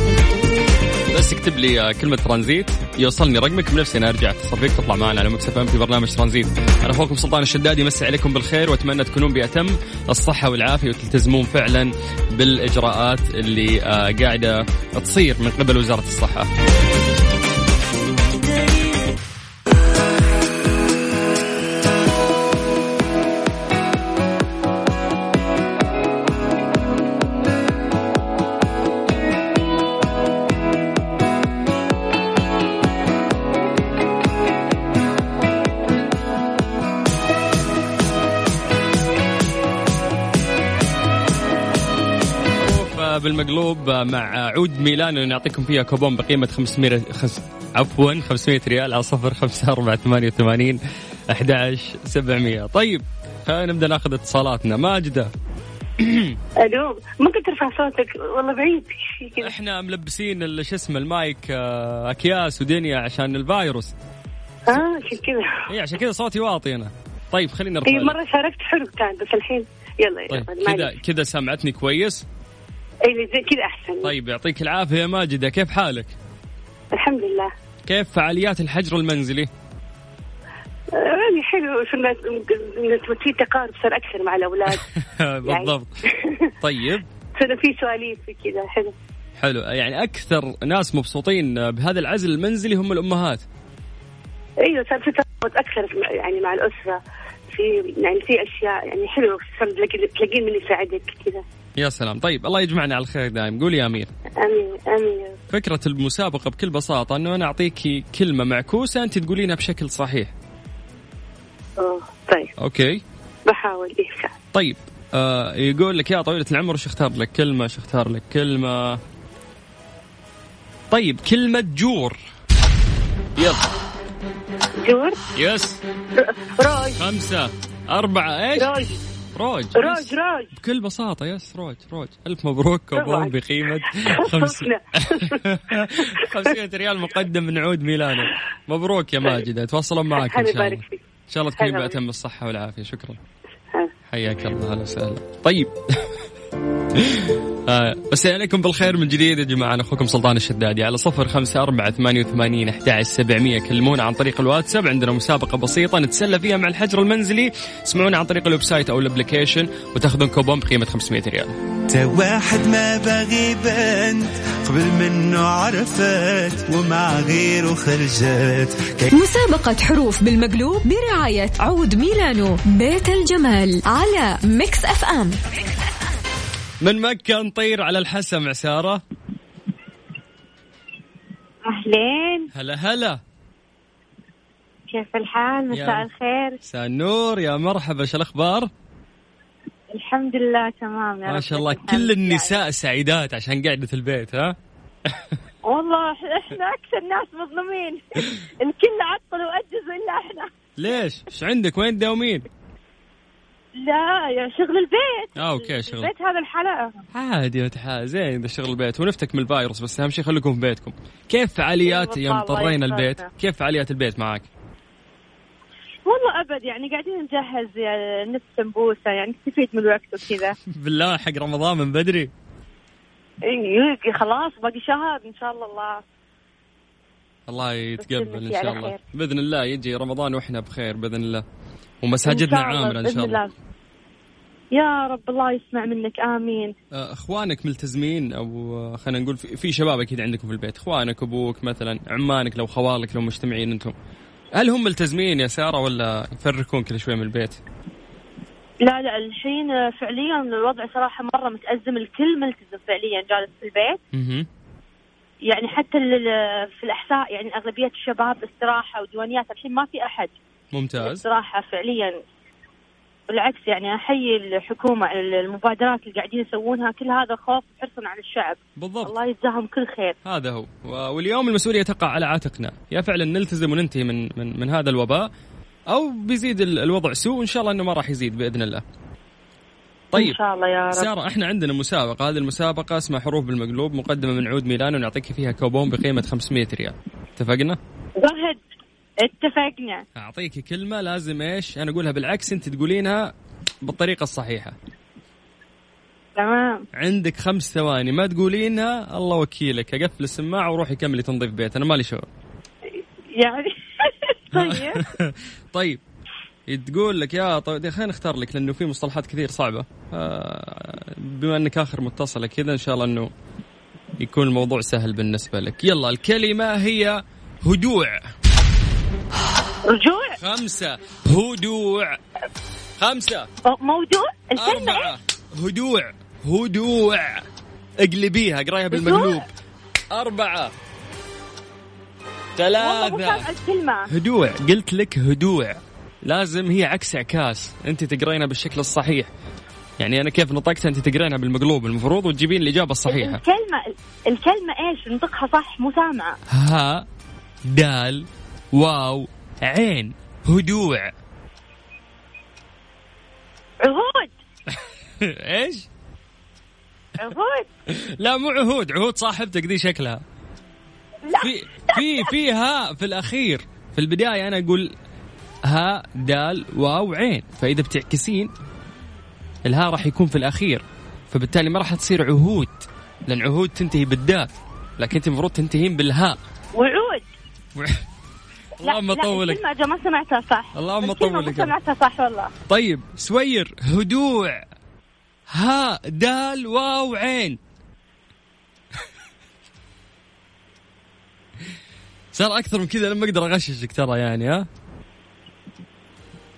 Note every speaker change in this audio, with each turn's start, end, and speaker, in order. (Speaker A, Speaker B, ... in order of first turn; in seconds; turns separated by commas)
Speaker A: 1.1-16.5, Speaker A: 42.6-50.8, Speaker A: 51.3-55.3, Speaker A: 56.0-56.4, Speaker B: 56.6-59.5, Speaker A: 59.4-63.9, Speaker B: 64.7-65.6, Speaker A: 65.7-68.2, Speaker B: 67.9-70.9, Speaker A: 70.3-72.2, Speaker B: 73.1-74.1, Speaker A: 74.0-76.2, Speaker B: 76.9-77.5, Speaker A: 77.9-79.5, Speaker B: 81.0-84.8, Speaker A: 84.7-85.9, Speaker B: 85.5-86.5, Speaker A: 86.6-87.1, Speaker B: 87.4-89.0, Speaker A: 89.4-93.4, Speaker B: 94.7-97.0, Speaker B: 97.5-101.4, Speaker A: 101.8-104.1, Speaker B: 104.4-105.4, Speaker A: 105.5-110.3, Speaker B: 111.8-112.5, Speaker A: 112.6-113.0, Speaker B: 113.5-114.3, Speaker A: 114.5-119.0, Speaker A: 120.9-122.2, Speaker A: 123.4-123.6, Speaker B: 124.8-125.2, Speaker A: 125.3-125.8, Speaker B: 126.2-127.0, Speaker A: 127.0-128.7, Speaker B: 128.6-129.0, Speaker A: 129.3-143.2, Speaker B: 129.8-130.5, Speaker B: 133.0-136.5, Speaker B: 140.1-141.0, Speaker B: 141.6-142.0, Speaker A: 144.1-146.1, Speaker A: 147.0-161.5, Speaker C: 161.9-169.1, Speaker D: 169.1-175.4, Speaker A: 176.8-179.0, Speaker E: 181.7-182.5, Speaker A: 182.5-183.2, Speaker E: 184.9-186.6, Speaker A: 185.7-186.1, Speaker A: 186.7-188.7, Speaker E: 189.9-192.6, Speaker A: 191.3-194.6, Speaker A: 195.1-195.3, Speaker E: 195.7-200.5, Speaker A: 200.8-202.5, Speaker E: 203.8-207.0, Speaker A: 205.4-206.1, Speaker A: 207.1-214.5, Speaker E: 211.8-213.3, Speaker E: 216.1-220.6, Speaker A: 220.7-222.3, Speaker E: 223.5-226.0, Speaker A: 227.5-231.4, Speaker E: 228.0-229.0, Speaker A: 232.0-233.4, Speaker E: 232.3-233.5, Speaker E: 234.7-236.7, Speaker A: 236.9-243.9, Speaker A: 244.6-247.6, Speaker E: 248.8-254.0, Speaker A: 254.1-254.5, Speaker E: 255.4-260.3, Speaker A: 260.7-261.2, Speaker E: 261.0-262.1, Speaker E: 263.3-270.1, Speaker A: 268.8-269.1, Speaker A: 270.3-275.3, Speaker A: 275.9-278.8, Speaker A: 280.1-280.4, Speaker E: 280.1-281.1, Speaker A: 280.9-287.8, Speaker E: 288.2-288.6, Speaker E: 289.2-290.0, Speaker A: 290.2-293.3, Speaker A: 293.9-294.8, Speaker E: 296.4-296.8, Speaker A: 297.0-302.3, Speaker E: 302.9-305.1, Speaker A: 304.5-306.0, Speaker A: 306.7-313.3, Speaker A: 314.2-318.2, Speaker E: 319.9-320.4, Speaker A: 320.4-322.2, Speaker A: 323.0-323.5, Speaker E: 323.6-325.1, Speaker A: 324.6-327.4, Speaker A: 328.0-329.5, Speaker E: 328.9-329.4, Speaker A: 330.1-330.7, Speaker A: 332.6-333.5, Speaker E: 332.8-334.1, Speaker A: 334.1-339.3, Speaker A: 340.0-343.4, Speaker E: 343.1-346.4, Speaker A: 346.5-347.1, Speaker A: 347.7-351.1, Speaker E: 353.8-354.3, Speaker A: 355.2-355.9, Speaker E: 357.2-357.7, Speaker A: 357.9-360.2, Speaker E: 361.2-362.2, Speaker A: 361.4-364.9, Speaker A: 365.7-368.5, Speaker A: 369.7-376.4, Speaker E: 376.8-377.3, Speaker A: 378.8-379.6, Speaker E: 378.8-382.5, Speaker A: 380.8-381.7, Speaker A: 382.7-384.6, Speaker A: 385.5-387.6, Speaker A: 392.3-394.7